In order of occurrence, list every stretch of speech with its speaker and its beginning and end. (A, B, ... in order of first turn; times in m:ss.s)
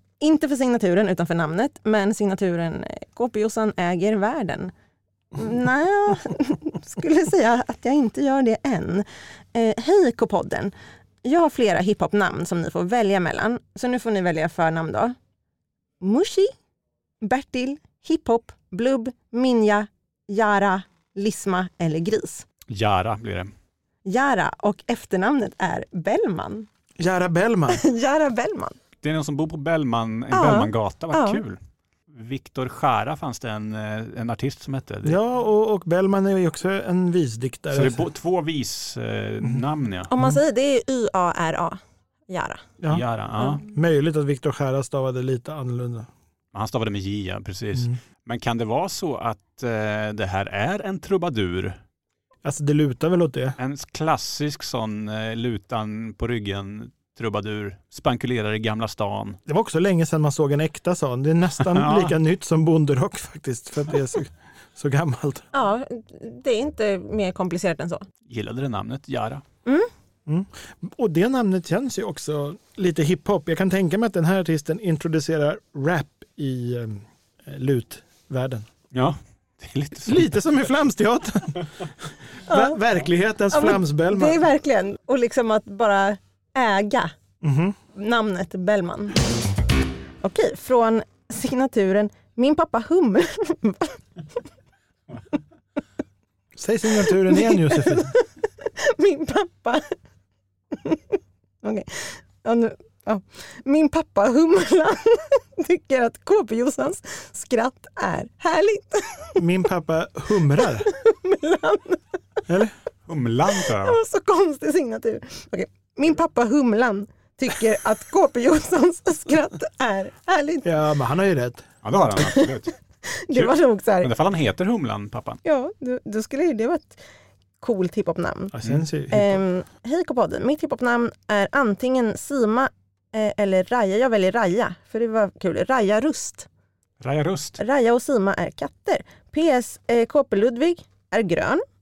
0:00.2-0:04.7 A
0:05.3-0:10.7 A
0:11.2-0:15.2 A
0:16.0-0:16.5 A
0:17.2-0:22.4 A
0:22.7-0:23.5 B
0:24.0-0:26.7 A
0:27.0-0:27.8 C
0:27.7-0:28.8 A
0:29.0-0:31.6 B
0:30.3-0:31.4 A
0:32.1-0:35.2 B
0:35.0-0:38.1 C
0:37.7-0:40.1 B
0:40.1-0:42.6 A
0:40.1-0:40.4 C
0:42.8-0:46.1 C
0:42.9-0:43.6 B
0:46.5-0:51.8 B
0:52.4-0:53.6 C
0:53.6-0:59.4 B
0:59.5-1:05.4 C
1:01.6-1:02.2 B
1:05.5-1:08.0 A
1:08.3-1:09.4 B
1:10.3-1:18.7 C
1:18.9-1:20.3 B
1:20.0-1:24.4 C
1:22.5-1:22.8 A
1:23.5-1:27.1 A
1:27.4-1:27.8 C
1:27.9-1:29.2 A
1:30.2-1:34.0 A
1:36.6-1:38.2 C
1:37.0-1:39.9 A
1:40.7-1:49.4 A
1:49.4-1:50.9 C
1:50.5-1:52.4 A
1:52.5-1:52.7 C
1:53.1-1:54.0 B
1:53.6-2:00.8 A
2:00.6-2:01.7 C
2:01.8-2:02.8 B
2:02.2-2:02.5 A
2:03.1-2:04.1 A
2:03.3-2:05.4 B
2:05.4-2:07.0 A
2:07.6-2:08.5 A
2:08.5-2:09.4 C
2:09.1-2:16.5 A
2:17.0-2:17.6 B
2:17.6-2:21.6 A